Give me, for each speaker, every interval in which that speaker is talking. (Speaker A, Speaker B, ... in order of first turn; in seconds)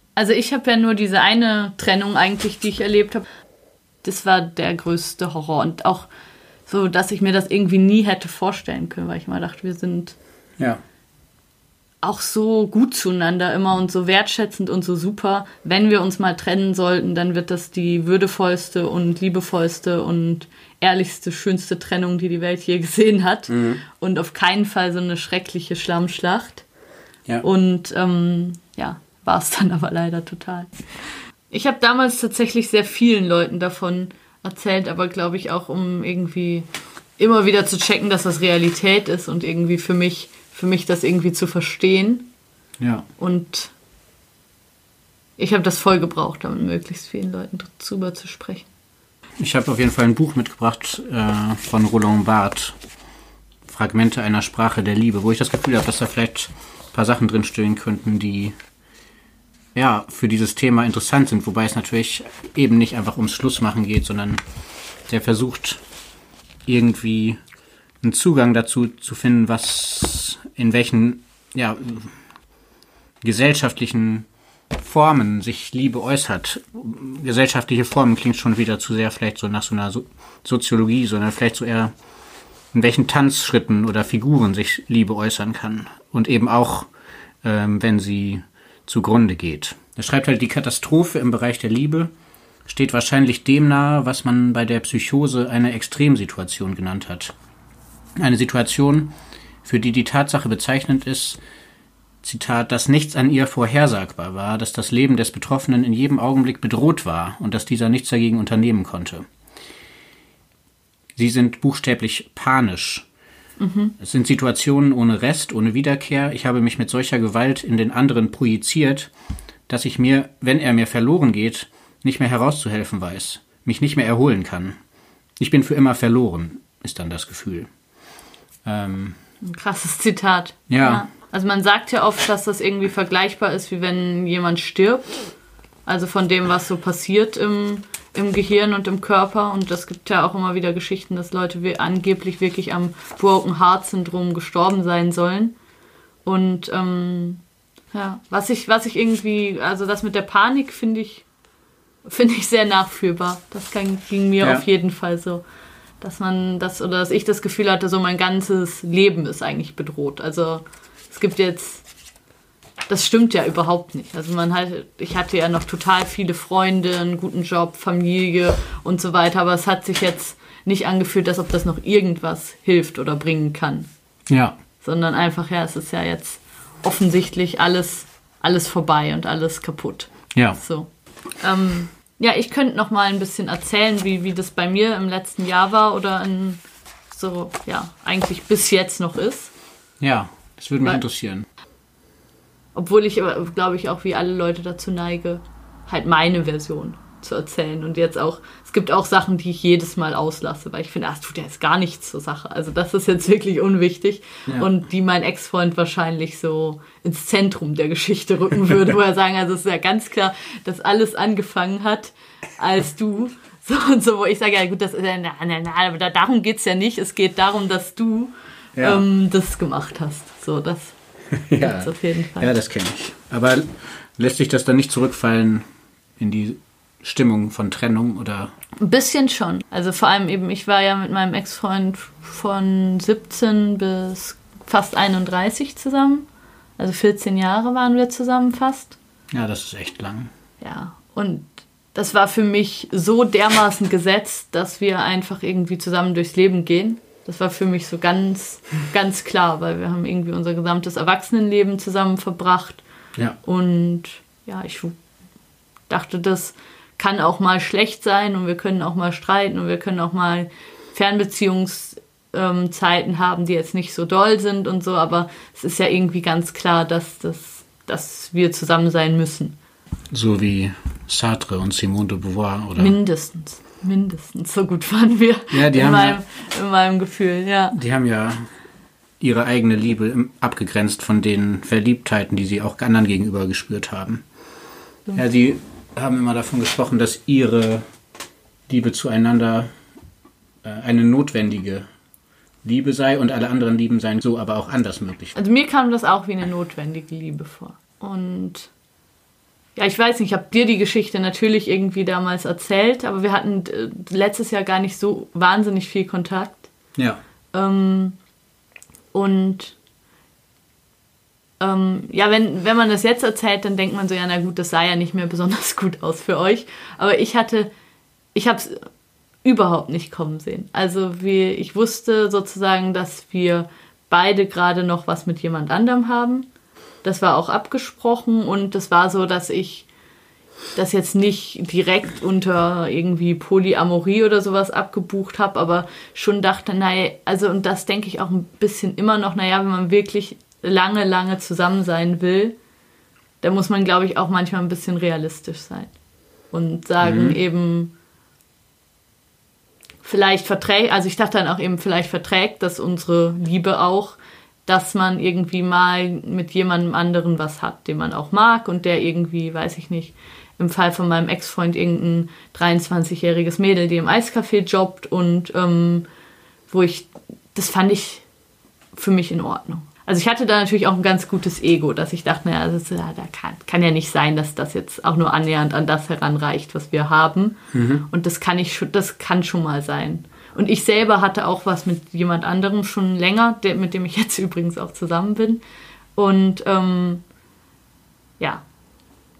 Speaker A: 0.2-3.2, 4.0-6.1, 6.7-10.2, 12.0-26.6, 27.4-30.7, 31.5-42.3, 43.2-43.7, 45.4-48.7, 113.6-114.0, 129.4-135.2, 135.9-145.5, 146.2-147.4, 147.9-151.2, 152.1-155.4, 156.0-161.8, 162.9-173.9, 174.8-186.6, 187.1-189.5, 192.8-220.9, 221.6-222.5, 228.8-236.3, 236.8-239.0, 240.6-252.8, 253.4-254.9, 255.9-269.6, 272.8-277.8, 295.4-298.7, 299.8-306.7, 307.5-308.2, 309.1-309.8, 311.6-317.7, 318.4-318.9, 319.4-326.5, 327.0-329.9, 330.8-342.6, 343.4-345.9, 346.5-347.9, 350.0-366.1, 366.7-368.2, 368.9-385.6, 386.2-387.2, 388.4-388.6
Speaker B: 23.5-23.8, 42.8-43.1, 49.4-52.8, 53.7-58.6, 59.7-64.4, 65.1-65.8, 66.7-67.4, 68.0-72.2, 73.2-81.9, 82.7-86.9, 87.4-92.1, 92.7-97.3, 98.2-99.1, 99.7-101.4, 102.2-109.3, 111.2-113.1, 114.0-119.1, 119.7-124.8, 125.4-127.7, 128.7-129.2, 130.7-131.1, 174.3-174.6, 180.3-180.6, 190.0-191.5, 218.8-219.1, 221.3-225.7, 226.2-228.5, 239.3-240.3, 270.1-273.0, 275.5-276.2, 277.7-278.5, 279.2-284.2, 285.1-287.9, 288.7-289.7, 290.6-291.9, 292.6-295.4, 307.0-307.2, 347.0-347.4, 377.7-378.1